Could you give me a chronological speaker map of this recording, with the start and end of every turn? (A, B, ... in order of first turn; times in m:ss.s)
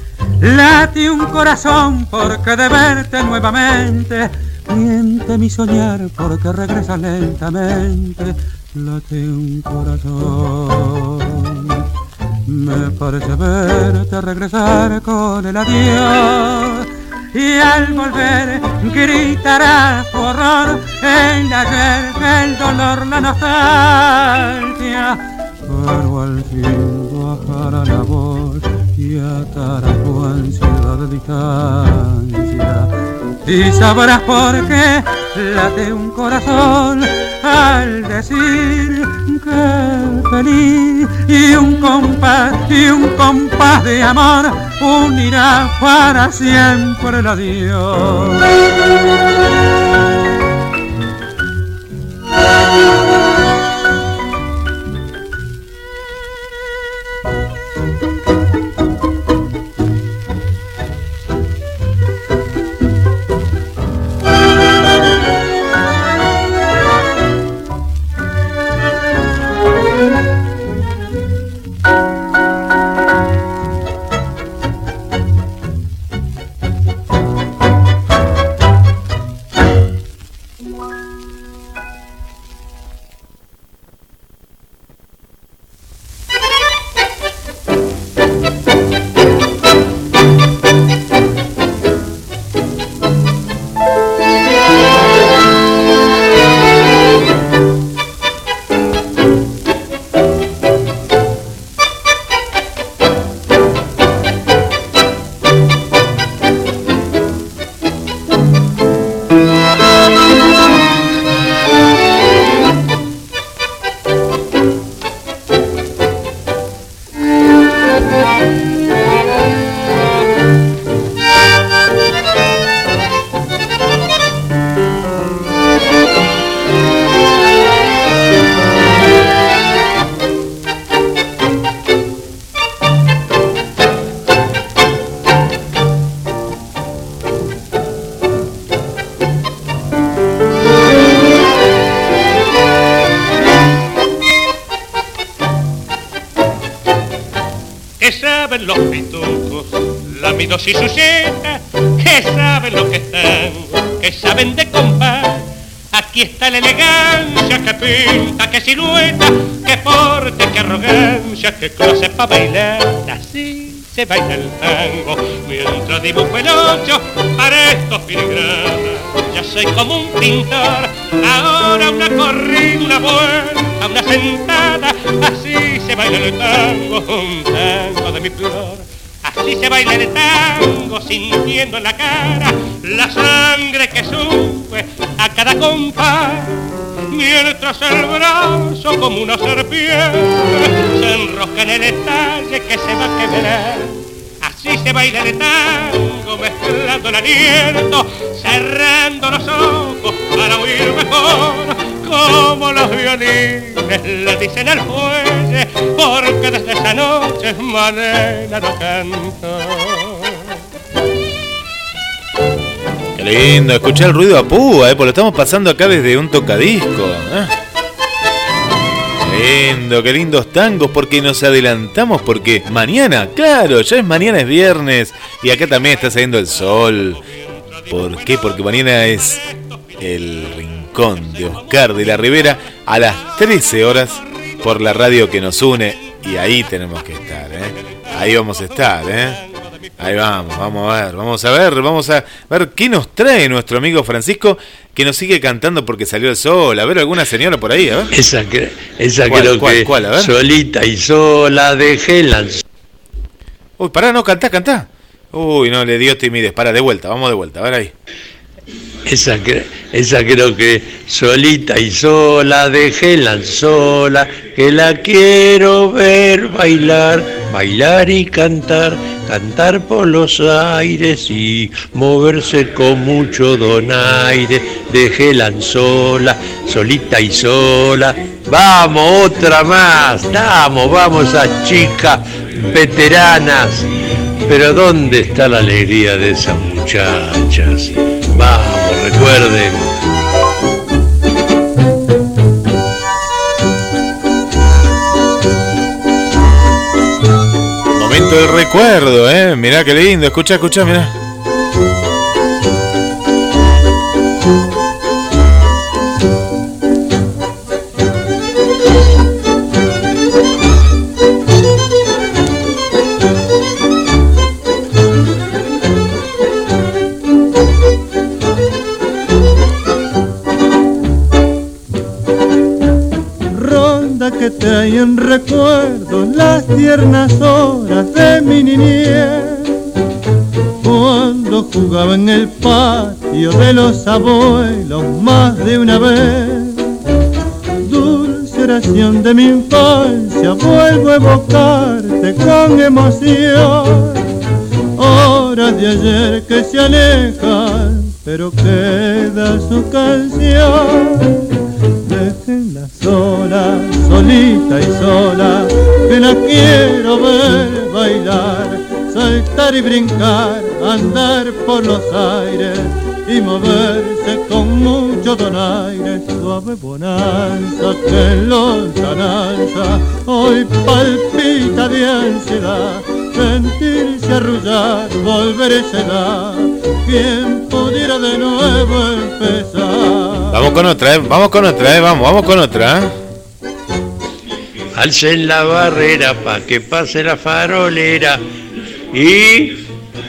0:00.4-0:11.8 A
0:12.5-0:32.9 A
0:33.4-0:48.5 A
2:28.0-2:35.4 B
2:35.9-3:06.6 B
3:07.1-3:30.3 B
3:33.2-3:37.5 C
3:39.2-3:47.2 C
3:47.5-3:48.5 B
3:47.9-3:49.4 C
3:49.6-3:49.8 B
3:50.0-3:59.4 C
3:58.1-3:59.8 B
4:00.0-4:08.1 C
4:08.1-4:12.6 D
4:09.3-4:10.3 C
4:13.8-4:17.9 C
4:19.1-4:43.9 D
4:44.5-4:49.9 D
4:58.0-5:01.1 C
5:23.5-5:29.7 E
5:30.9-5:36.8 E
5:37.9-5:44.2 E
5:45.0-5:51.3 E
5:52.1-6:20.5 E
6:20.5-6:23.2 C
6:25.0-6:28.4 D
6:29.1-6:29.8 D